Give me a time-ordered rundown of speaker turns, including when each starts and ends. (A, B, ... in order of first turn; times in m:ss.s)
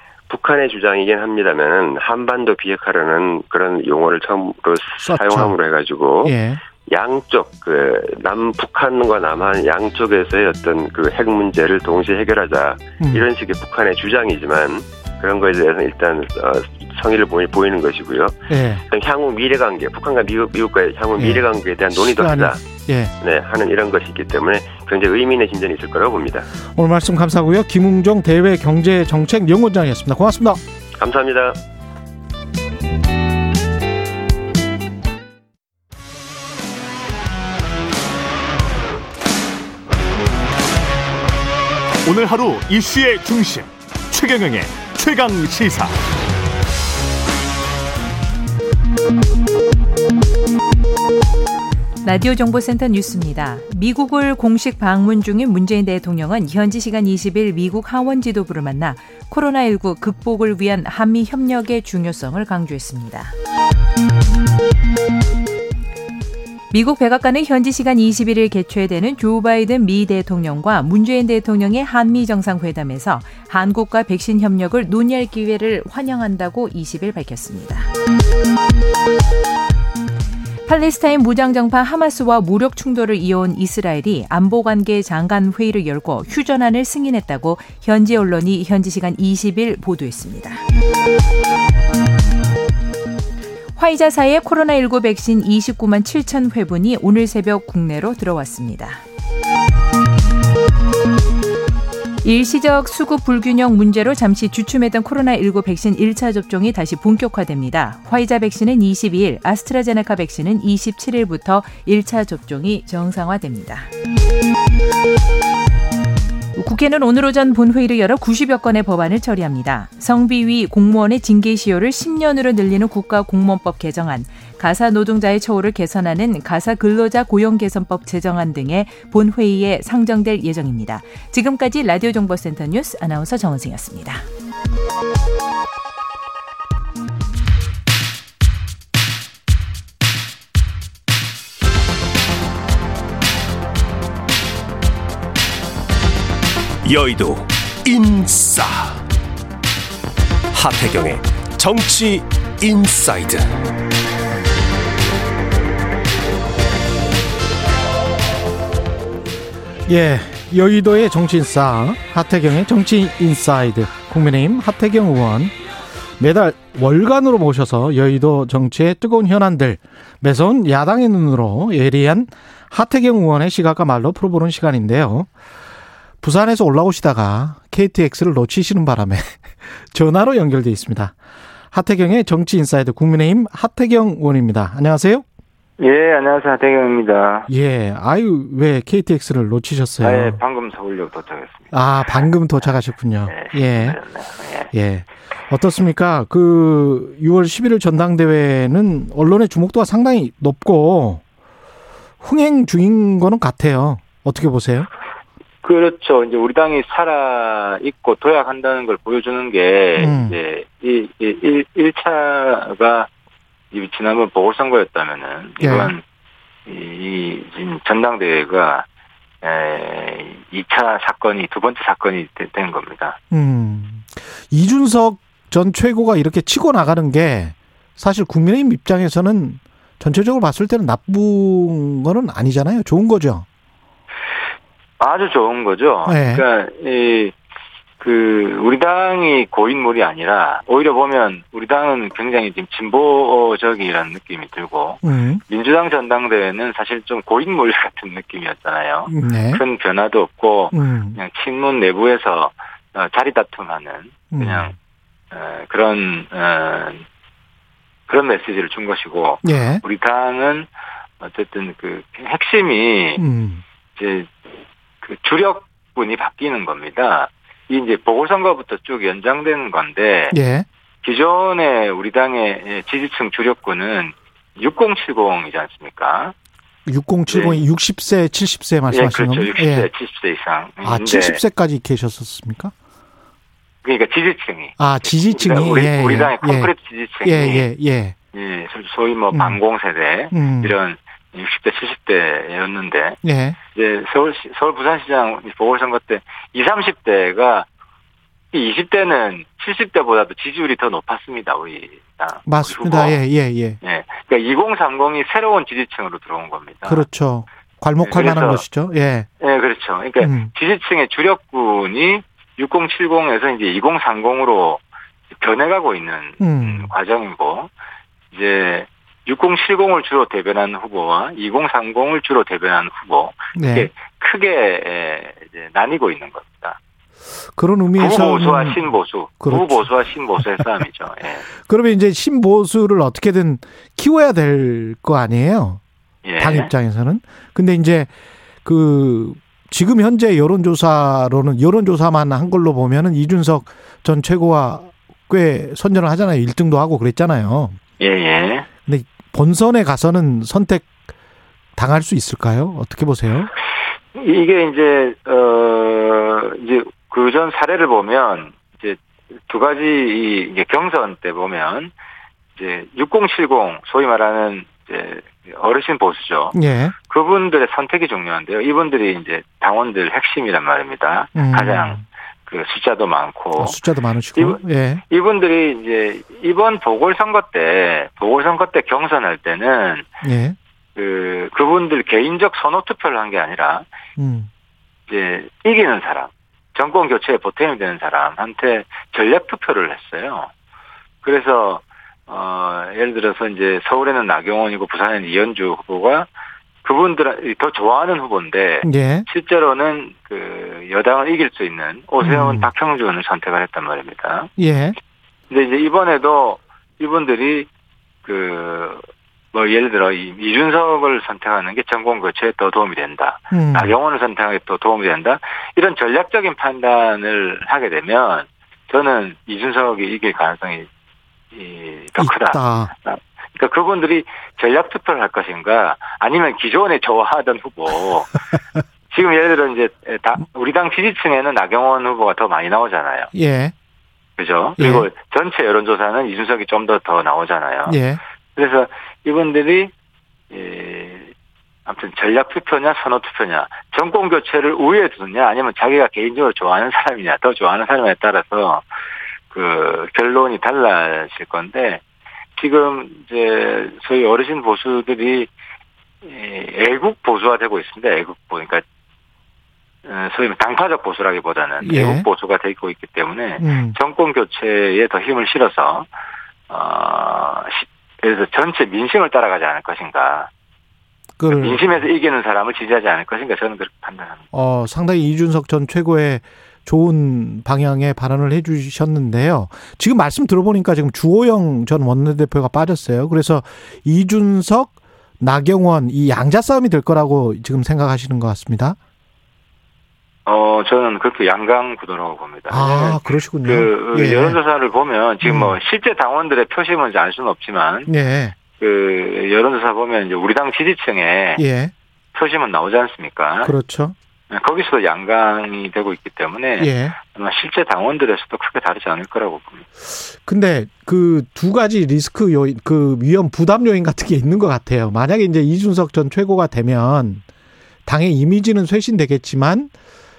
0:00.3-0:18.4 A
0:05.0-0:05.6 B
0:06.2-0:06.6 B
0:13.0-0:13.2 B
0:18.5-0:18.8 B
0:18.9-0:22.6 A
0:21.2-0:23.1 B
0:23.2-0:26.5 A
0:26.6-0:30.6 B
0:31.0-0:31.6 A
0:42.0-0:46.0 C
0:52.0-1:03.4 D
1:06.7-1:17.9 D
1:20.6-1:30.6 D
1:33.8-1:39.0 D
1:42.2-1:53.9 D
1:56.6-2:14.2 D
2:26.8-2:29.0 C
2:30.5-2:33.5 C
2:39.9-2:45.6 B
2:46.2-2:55.3 B
2:56.2-3:01.2 B
3:01.7-3:05.2 B
3:05.8-3:07.5 E
3:07.5-3:10.4 B
3:10.0-3:12.3 E
3:11.7-3:14.0 B
3:13.3-3:14.7 E
3:14.7-3:21.2 B
3:22.2-3:24.9 B
3:25.6-3:33.1 E
3:30.0-3:30.4 B
3:33.7-3:36.0 E
3:35.6-3:36.0 B
3:36.7-3:38.8 E
3:39.4-3:43.2 E
3:43.3-3:53.5 B
3:55.0-3:57.3 E
3:56.1-3:56.4 B
3:58.0-4:14.8 E
4:05.0-4:05.4 B
4:09.1-4:09.6 B
4:10.7-4:11.2 B
4:14.3-4:14.8 B
4:15.3-4:17.0 E
4:18.1-4:20.7 E
4:19.4-4:19.8 B
4:21.2-4:23.2 E
4:23.2-4:23.6 B
4:24.0-4:24.3 E
4:25.0-4:30.4 E
4:30.3-4:30.7 B
4:31.0-4:36.3 E
4:36.9-4:39.9 B
4:37.3-4:37.6 E
4:38.9-4:41.4 E
4:40.8-4:42.7 B
4:43.8-4:47.7 E
4:44.8-4:48.2 B
4:48.3-4:53.2 E
4:49.3-4:49.6 B
4:50.3-4:50.8 B
4:53.2-4:53.6 B
4:53.7-4:57.7 E
4:58.5-5:03.2 E
5:02.5-5:03.8 B
5:03.8-5:07.1 E
5:06.8-5:09.3 B
5:08.0-5:08.6 E
5:09.4-5:14.8 E
5:10.2-5:10.5 B
5:15.4-5:17.7 E
5:16.4-5:16.9 B
5:18.3-5:26.8 E
5:23.6-5:23.9 B
5:27.6-5:28.8 B
5:27.9-5:31.5 E
5:29.4-5:29.9 B
5:31.5-5:35.8 B
5:36.2-5:36.7 E
5:36.4-5:38.1 B
5:38.6-5:47.8 B
5:48.0-5:48.7 E
5:48.9-5:50.9 B
5:51.8-5:53.5 B
5:54.2-6:01.9 E
6:02.6-6:06.6 E
6:06.5-6:07.0 B
6:07.1-6:13.8 E
6:11.4-6:12.0 B
6:13.6-6:15.0 B
6:14.4-6:20.1 E
6:20.2-6:20.6 B
6:21.0-6:23.8 E
6:24.2-6:24.5 B
6:25.1-6:30.5 E
6:31.2-6:36.3 E
6:36.8-6:44.5 E
6:38.8-6:39.3 B
6:42.2-6:42.7 B
6:44.6-6:45.0 B
6:45.5-6:47.7 E
6:48.2-6:49.0 E
6:49.5-7:00.9 E
6:53.5-6:54.0 B
7:01.5-7:08.3 E
7:02.2-7:02.9 B
7:09.1-7:13.3 E
7:13.3-7:13.7 B
7:14.4-7:18.0 E
7:14.8-7:15.1 B
7:17.9-7:18.2 B
7:18.6-7:19.9 E
7:20.5-7:21.3 E
7:21.9-7:28.8 E
7:29.5-7:32.0 E
7:32.6-7:35.5 E
7:36.2-7:38.8 E
7:40.0-7:46.1 E
7:41.8-7:42.3 B
7:43.6-7:44.0 B
7:46.7-7:50.5 E
7:51.4-7:51.8 B
7:51.5-7:54.4 E
7:54.5-8:09.0 B
8:10.5-8:18.1 E
8:12.7-8:14.6 B
8:15.4-8:15.8 B
8:18.1-8:18.6 B
8:18.7-8:21.6 E
8:21.6-8:21.9 B
8:22.3-8:23.7 E
8:23.6-8:24.2 B
8:24.5-8:29.9 E
8:26.8-8:27.2 B
8:30.2-8:37.4 B
8:38.1-8:39.9 B